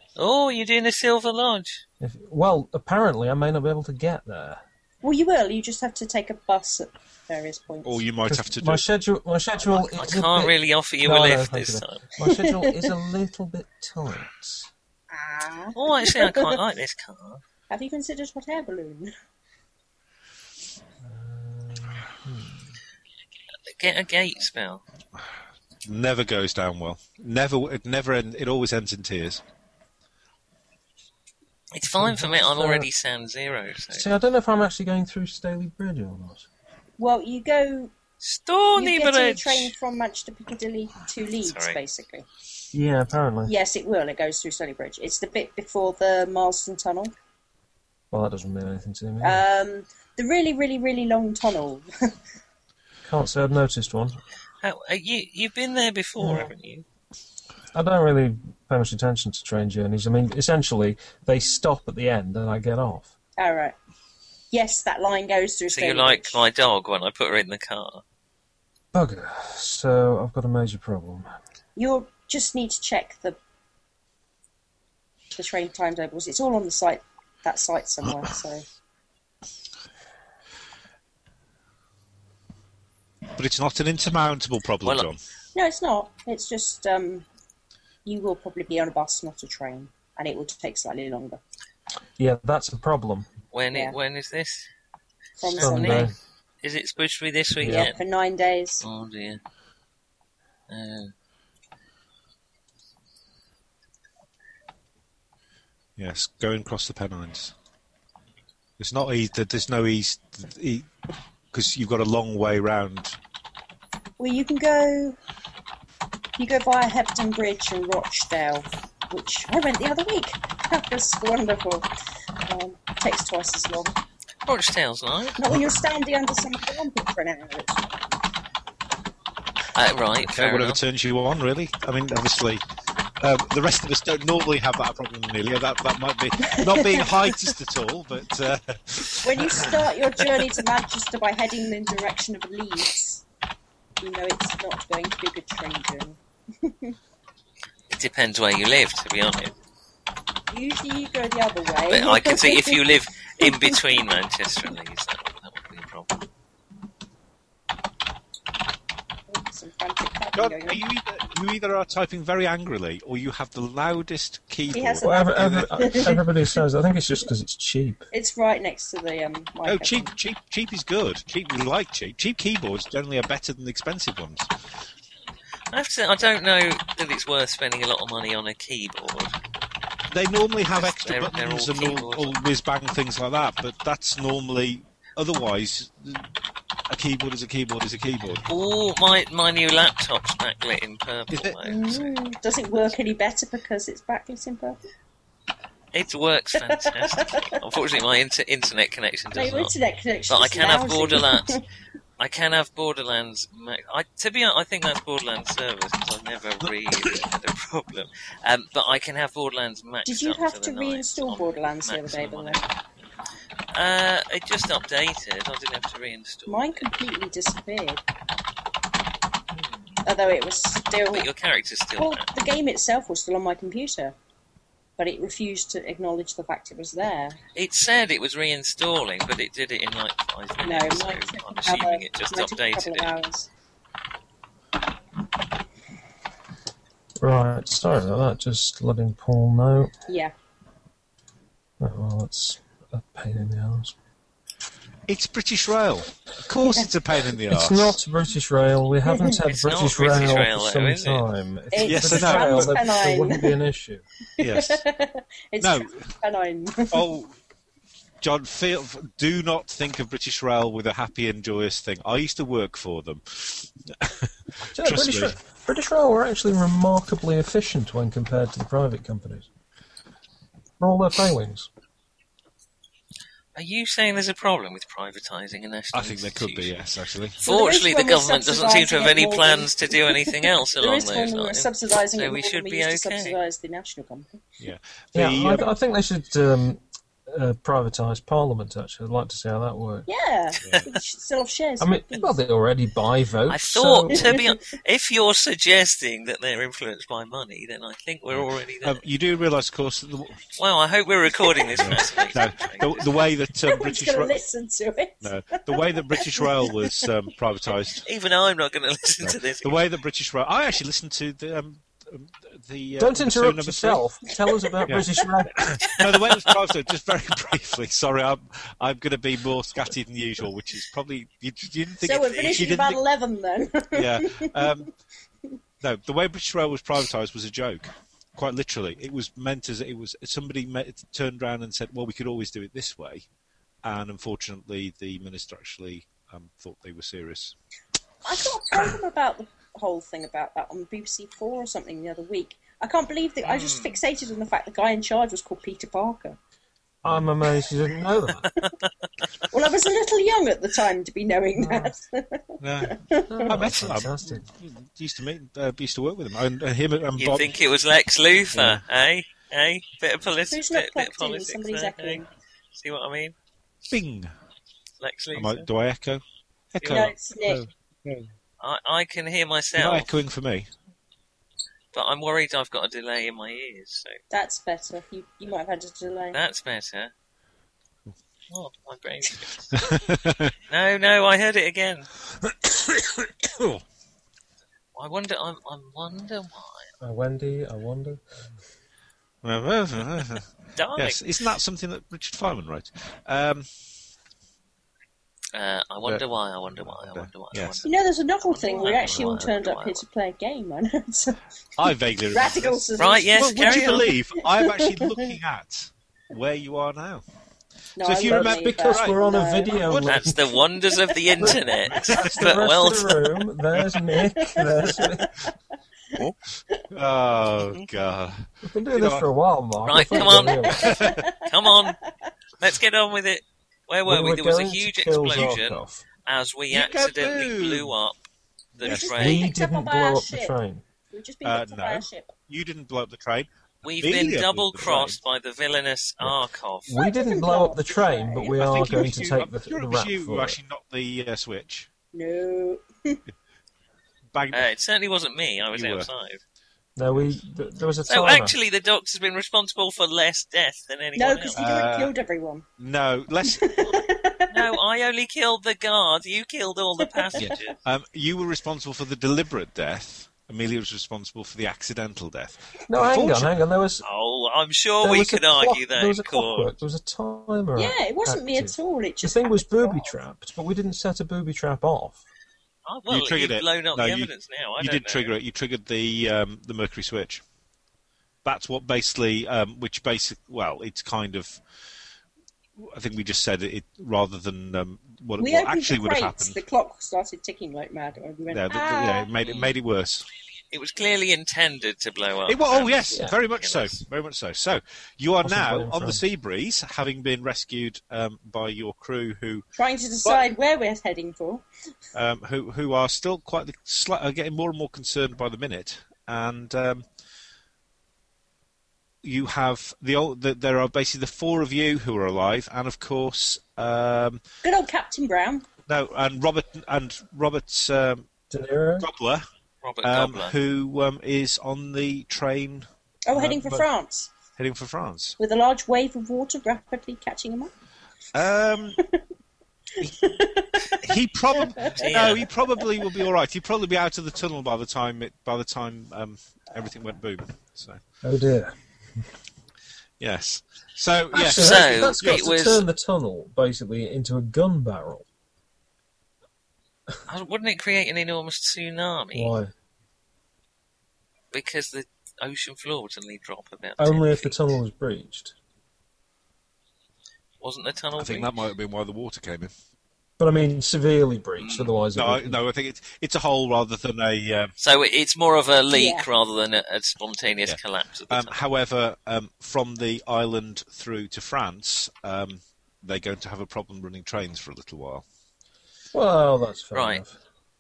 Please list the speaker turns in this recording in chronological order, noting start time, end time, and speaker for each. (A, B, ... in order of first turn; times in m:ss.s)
0:00.2-0:01.8 A
0:02.0-0:04.6 B
0:05.0-0:08.0 C
0:07.8-0:08.8 D
0:08.3-0:14.7 B
0:09.8-0:12.0 A
0:12.2-0:12.9 C
0:15.1-0:16.6 C
0:15.8-0:17.4 A
0:17.7-0:19.1 C
0:21.0-0:22.7 B
0:23.6-0:24.8 A
0:25.8-0:29.4 D
0:31.7-0:34.1 A
0:32.0-0:32.9 B
0:33.9-0:36.5 B
0:37.0-0:37.9 C
0:38.2-0:39.7 A
0:38.8-0:42.3 C
0:41.4-0:41.8 A
0:42.7-0:43.6 B
0:43.5-0:47.1 C
0:48.1-0:49.4 B
0:49.2-0:52.1 C
0:53.0-0:54.2 B
0:54.6-0:56.8 A
0:56.2-0:56.5 B
0:57.7-1:03.1 B
1:03.4-1:03.8 C
1:04.5-1:06.4 C
1:05.8-1:08.0 A
1:08.9-1:11.3 B
1:11.8-1:13.4 C
1:15.4-1:18.6 C
1:23.4-1:25.2 D
1:24.8-1:25.1 A
1:25.5-1:27.2 C
1:28.0-1:31.4 C
1:32.2-1:33.3 B
1:33.5-1:34.7 A
1:33.7-1:34.0 C
1:35.4-1:36.1 C
1:35.4-1:38.0 A
1:35.6-1:36.2 B
1:37.6-1:37.9 B
1:37.6-1:38.8 C
1:38.8-1:39.4 A
1:40.7-1:41.1 A
1:46.0-1:47.5 D
1:48.8-1:50.9 D
1:51.5-1:53.2 D
1:54.2-1:55.2 C
1:56.4-2:01.9 C
2:02.4-2:03.9 C
2:04.4-2:05.4 A
2:05.4-2:08.0 C
2:09.8-2:10.8 A
2:10.2-2:12.6 D
2:13.2-2:19.9 D
2:16.4-2:17.1 C
2:19.2-2:23.2 C
2:24.0-2:27.0 C
2:27.9-2:29.5 A
2:30.5-2:34.0 C
2:31.9-2:36.1 A
2:39.3-2:40.8 C
2:40.4-2:46.2 D
2:44.7-2:46.3 C
2:45.0-2:48.1 B
2:48.1-2:50.1 C
2:49.6-2:54.5 D
2:55.7-2:59.3 A
3:00.1-3:06.3 D
3:00.7-3:02.4 A
3:06.9-3:08.4 D
3:08.5-3:12.1 A
3:11.3-3:11.6 D
3:11.6-3:14.8 C
3:15.9-3:19.7 A
3:16.5-3:17.6 C
3:19.3-3:21.6 C
3:20.3-3:21.6 A
3:22.2-3:32.7 A
3:30.1-3:32.6 C
3:33.7-3:36.9 A
3:36.5-3:38.0 C
3:40.0-3:41.3 C
3:41.1-3:42.3 A
3:42.0-3:44.2 C
3:45.0-3:47.4 C
3:47.6-3:53.1 A
3:50.6-3:53.5 C
3:57.2-3:59.9 B
4:00.1-4:00.3 C
4:01.8-4:03.9 B
4:05.1-4:08.0 D
4:07.5-4:14.0 B
4:09.1-4:09.4 C
4:09.5-4:11.3 A
4:11.7-4:13.6 C
4:11.8-4:12.7 D
4:14.4-4:17.1 C
4:14.4-4:14.8 D
4:15.6-4:16.1 D
4:16.9-4:17.4 D
4:18.2-4:25.3 D
4:24.7-4:29.5 B
4:30.8-4:31.7 B
4:33.6-4:36.8 A
4:35.9-4:37.4 D
4:37.4-4:43.4 A
4:37.4-4:44.4 C
4:44.6-4:45.7 D
4:45.1-4:50.1 B
4:50.1-4:52.4 C
4:50.6-4:50.9 D
4:51.8-4:54.4 B
4:53.5-4:59.0 A
4:54.1-4:54.6 C
4:58.3-5:00.4 D
5:00.6-5:02.9 A
5:01.5-5:02.9 C
5:01.8-5:04.4 D
5:03.6-5:07.1 C
5:05.2-5:08.1 D
5:08.0-5:09.8 A
5:09.2-5:14.0 D
5:13.0-5:15.9 B
5:14.6-5:14.9 C
5:14.9-5:23.0 D
5:22.0-5:24.8 C
5:23.9-5:24.9 D
5:25.8-5:33.3 D
5:33.8-5:37.6 D
5:38.2-5:46.4 C
5:43.4-5:44.0 A
5:47.0-5:48.5 B
5:49.5-5:53.6 C
5:51.6-5:51.9 B
5:52.6-5:57.6 D
5:53.3-5:54.5 B
5:57.2-6:03.4 A
5:58.5-5:58.8 D
6:00.5-6:02.3 C
6:03.9-6:04.3 D
6:05.0-6:05.7 A
6:05.3-6:06.2 D
6:06.7-6:08.3 D
6:06.8-6:07.1 A
6:06.9-6:07.7 C
6:08.6-6:10.1 A
6:09.8-6:10.7 D
6:11.9-6:14.2 A
6:14.3-6:16.4 C
6:16.3-6:17.1 A
6:18.5-6:19.9 A
6:19.8-6:20.5 D
6:20.7-6:22.1 A
6:22.4-6:23.8 D
6:25.0-6:26.9 A
6:27.0-6:28.2 B
6:29.4-6:33.7 D
6:30.8-6:31.2 A
6:35.5-6:37.9 A
6:36.0-6:37.8 D
6:37.8-6:41.4 C
6:38.4-6:40.0 A
6:39.0-6:39.3 D
6:41.8-6:47.2 D
6:42.3-6:45.3 C
6:43.0-6:44.1 A
6:48.0-6:49.2 D
6:48.0-6:50.1 C
6:48.2-6:50.6 B
6:49.8-6:53.2 A
6:50.9-6:51.2 C
6:51.4-6:55.3 B
6:51.8-6:52.6 D
6:54.2-6:55.5 C
6:56.9-6:59.3 D
6:58.6-7:01.0 B
6:59.9-7:02.0 A
7:00.2-7:02.0 C
7:00.7-7:01.3 D
7:02.6-7:08.2 A
7:04.1-7:06.0 B
7:06.7-7:07.9 D
7:08.8-7:09.5 A
7:08.8-7:09.2 D
7:08.8-7:10.6 C
7:09.2-7:10.8 B
7:11.1-7:12.3 C
7:11.4-7:15.2 D
7:13.8-7:17.0 A
7:16.9-7:20.6 B
7:16.9-7:19.4 C
7:18.6-7:21.9 D
7:22.1-7:23.2 C
7:24.3-7:24.6 D
7:24.5-7:26.4 A
7:25.7-7:26.1 D
7:27.0-7:28.6 B
7:27.1-7:27.4 D
7:28.1-7:31.6 A
7:31.2-7:32.7 C
7:31.5-7:32.1 D
7:32.8-7:33.8 D
7:33.4-7:34.7 C
7:34.5-7:37.8 A
7:37.0-7:37.7 C
7:37.4-7:43.5 D
7:42.9-7:44.0 B
7:44.0-7:46.7 A
7:45.0-7:52.2 B
7:47.8-7:50.1 C
7:52.9-7:55.3 A
7:53.1-7:57.4 D
7:58.4-8:01.6 D
8:02.8-8:06.6 D
8:05.4-8:09.3 C
8:08.5-8:10.3 D
8:09.4-8:09.7 A
8:10.7-8:14.0 A
8:12.5-8:19.7 D
8:15.4-8:16.2 B
8:19.8-8:21.6 C
8:22.1-8:27.1 D
8:29.2-8:34.4 D
8:34.6-8:35.7 C
8:35.9-8:38.3 D
8:38.5-8:39.1 B
8:39.0-8:39.4 D
8:39.8-8:40.6 A
8:40.0-8:43.9 D
8:43.3-8:44.3 C
8:44.6-8:45.4 D
8:45.4-8:47.7 C
8:48.3-8:49.0 D
8:50.0-8:52.5 C
8:51.0-8:58.0 D
8:51.8-8:52.5 A
8:58.2-8:58.8 B
9:00.2-9:02.5 D
9:01.3-9:05.3 B
9:01.4-9:02.8 A
9:07.3-9:09.6 A
9:09.3-9:09.7 B
9:11.5-9:14.6 A
9:14.0-9:15.6 B
9:17.6-9:18.5 A
9:18.2-9:19.7 D
9:20.4-9:22.6 B
9:21.6-9:21.9 A
9:22.2-9:24.7 D
9:24.8-9:28.6 A
9:25.9-9:26.3 C
9:28.3-9:35.2 D
9:36.1-9:37.4 B
9:36.9-9:37.2 A